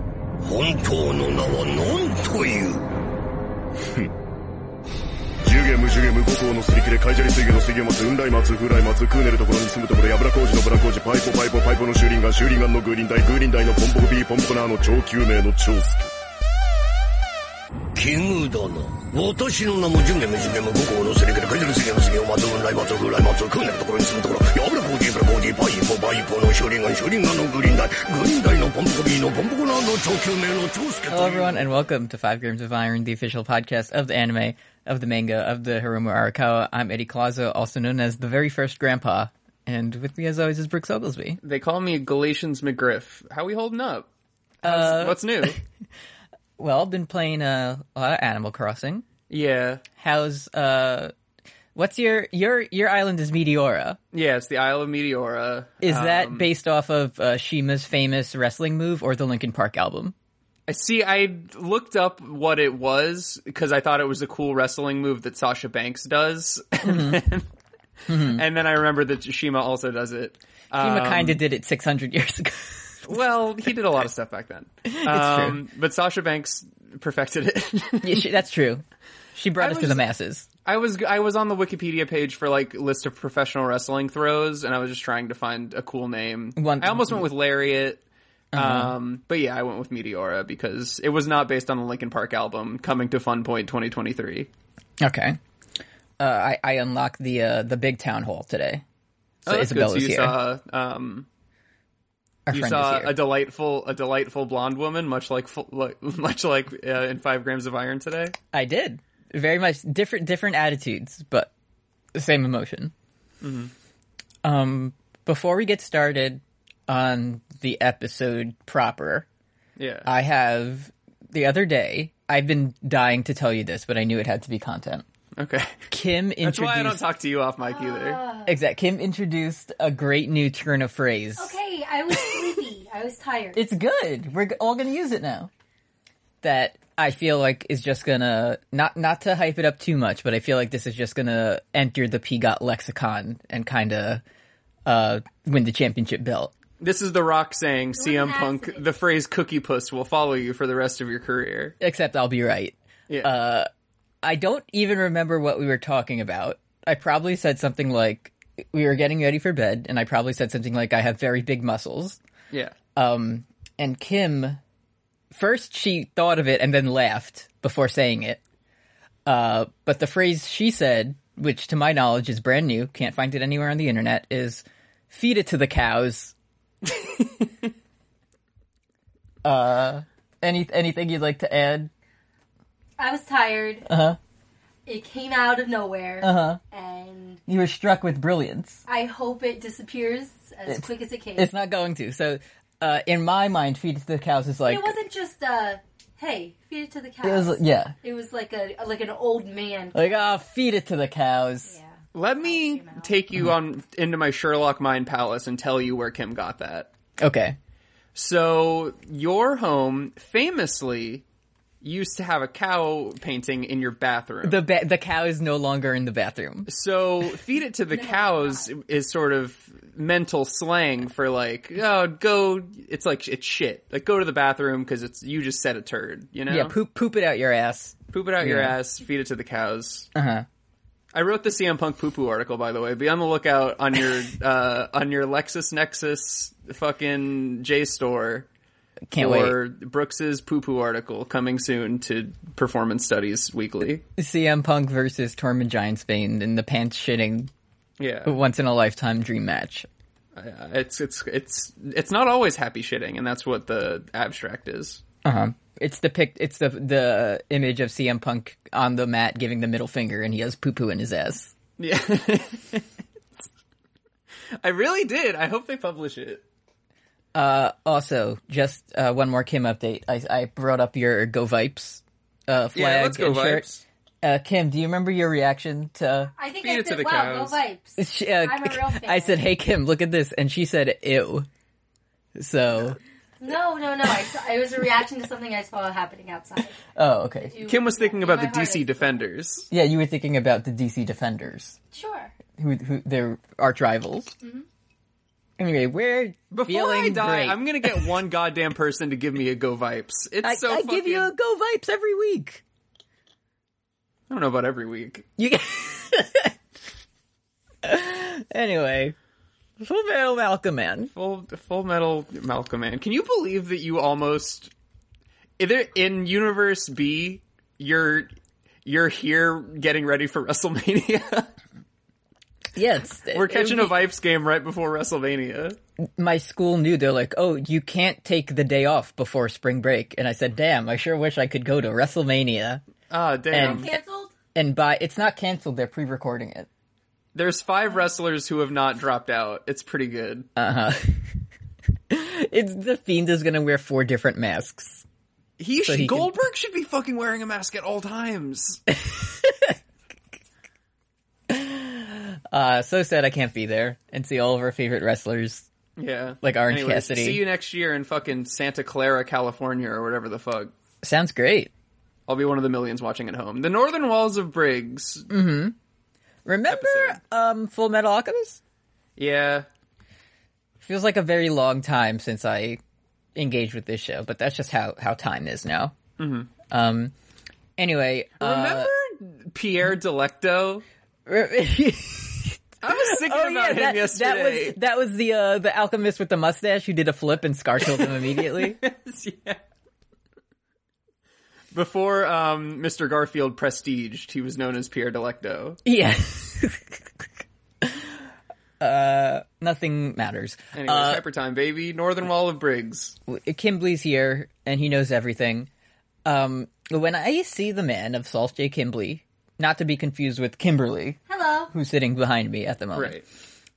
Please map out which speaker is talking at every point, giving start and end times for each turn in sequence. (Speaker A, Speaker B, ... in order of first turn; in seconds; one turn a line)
Speaker A: 0.4-2.9
Speaker B: 5.4-16.1
Speaker A: 17.9-31.5
Speaker C: 31.1-41.4
Speaker D: 41.4-44.1
Speaker D: 44.6-45.6
Speaker C: 44.6-45.6
Speaker C: 46.6-49.1
Speaker D: 49.3-49.8
Speaker C: 50.0-51.1
Speaker C: 51.8-54.0
Speaker D: 54.1-56.5
Speaker C: 55.8-60.1
Speaker D: 60.7-67.5
Speaker C: 66.8-67.2
Speaker C: 68.1-68.4
Speaker D: 68.1-71.4
Speaker C: 70.8-73.2
Speaker D: 73.0-78.2
Speaker C: 74.9-75.6
Speaker C: 78.0-78.8
Speaker C: 79.3-80.5
Speaker D: 79.6-80.1
Speaker D: 80.6-88.0
Speaker C: 86.6-87.3
Speaker C: 88.5-88.9
Speaker D: 88.5-94.5
Speaker C: 95.0-95.4
Speaker C: 96.2-98.8
Speaker C: 99.5-100.4
Speaker D: 99.5-101.3
Speaker C: 102.5-103.2
Speaker D: 102.5-108.3
Speaker C: 108.5-111.5
Speaker C: 112.2-112.9
Speaker D: 113.4-113.7
Speaker C: 114.4-119.3
Speaker D: 119.8-120.1
Speaker C: 120.1-125.0
Speaker D: 125.4-125.8
Speaker C: 125.9-127.0
Speaker D: 126.4-128.2
Speaker E: 127.6-128.6
Speaker C: 128.5-131.6
Speaker E: 131.4-133.6
Speaker C: 133.5-135.5
Speaker C: 136.4-144.2
Speaker C: 144.9-146.5
Speaker D: 146.8-151.8
Speaker E: 148.0-148.8
Speaker C: 151.8-153.7
Speaker D: 153.1-153.3
Speaker C: 154.2-162.2
Speaker C: 162.9-164.6
Speaker C: 165.3-168.4
Speaker C: 169.3-176.3
Speaker C: 179.4-181.9
Speaker E: 183.0-183.9
Speaker C: 183.9-184.2
Speaker E: 184.9-187.4
Speaker C: 186.2-186.6
Speaker C: 187.5-188.8
Speaker E: 188.9-191.5
Speaker C: 190.7-194.9
Speaker E: 194.7-200.1
Speaker C: 197.2-197.9
Speaker C: 199.9-201.8
Speaker E: 201.7-203.2
Speaker D: 202.1-206.9
Speaker C: 207.2-207.6
Speaker D: 208.2-211.2
Speaker D: 211.8-214.6
Speaker C: 214.4-216.7
Speaker D: 216.7-226.8
Speaker E: 217.9-218.7
Speaker C: 226.5-228.8
Speaker D: 228.1-230.1
Speaker C: 230.2-230.5
Speaker D: 231.1-238.5
Speaker C: 239.1-239.6
Speaker D: 239.2-244.0
Speaker C: 244.2-247.5
Speaker D: 248.0-248.4
Speaker C: 248.2-249.9
Speaker D: 250.4-255.0
Speaker C: 255.2-261.5
Speaker D: 261.8-262.8
Speaker D: 264.6-266.4
Speaker C: 267.4-273.7
Speaker D: 272.7-273.8
Speaker C: 274.2-276.3
Speaker E: 276.4-279.4
Speaker D: 276.6-277.6
Speaker C: 278.0-281.5
Speaker C: 282.4-283.0
Speaker E: 283.4-286.8
Speaker C: 286.9-287.6
Speaker E: 287.5-289.2
Speaker D: 287.6-289.7
Speaker C: 289.7-291.8
Speaker E: 291.9-292.3
Speaker C: 292.6-294.3
Speaker C: 295.6-298.1
Speaker D: 296.5-301.3
Speaker C: 300.4-302.6
Speaker D: 304.3-305.3
Speaker C: 305.4-306.6
Speaker C: 307.8-309.1
Speaker C: 309.8-311.1
Speaker D: 311.1-314.7
Speaker D: 315.6-318.3
Speaker D: 318.9-321.5
Speaker C: 322.8-324.0
Speaker D: 323.3-325.8
Speaker C: 326.2-332.8
Speaker D: 333.1-333.9
Speaker C: 333.5-334.0
Speaker E: 333.6-334.3
Speaker C: 334.6-336.7
Speaker D: 337.4-340.5
Speaker C: 340.6-341.4
Speaker C: 342.1-345.0
Speaker D: 345.6-348.8
Speaker C: 345.8-346.3
Speaker C: 348.9-349.8
Speaker C: 351.5-355.7
Speaker D: 356.0-360.7
Speaker C: 356.4-357.4
Speaker C: 361.0-361.7
Speaker D: 362.3-365.3
Speaker C: 365.3-365.8
Speaker C: 366.5-368.6
Speaker D: 366.7-367.2
Speaker D: 369.2-369.7
Speaker C: 370.8-372.8
Speaker C: 373.4-376.0
Speaker D: 376.2-376.5
Speaker C: 376.7-377.1
Speaker C: 377.8-378.9
Speaker D: 378.4-380.8
Speaker C: 381.3-388.8
Speaker D: 382.8-384.8
Speaker D: 388.0-389.6
Speaker D: 391.7-395.8
Speaker C: 395.9-397.2
Speaker C: 397.8-398.2
Speaker C: 398.8-401.2
Speaker D: 400.7-403.2
Speaker C: 403.3-405.7
Speaker C: 406.2-411.2
Speaker E: 411.3-411.7
Speaker C: 411.7-413.2
Speaker D: 412.9-413.2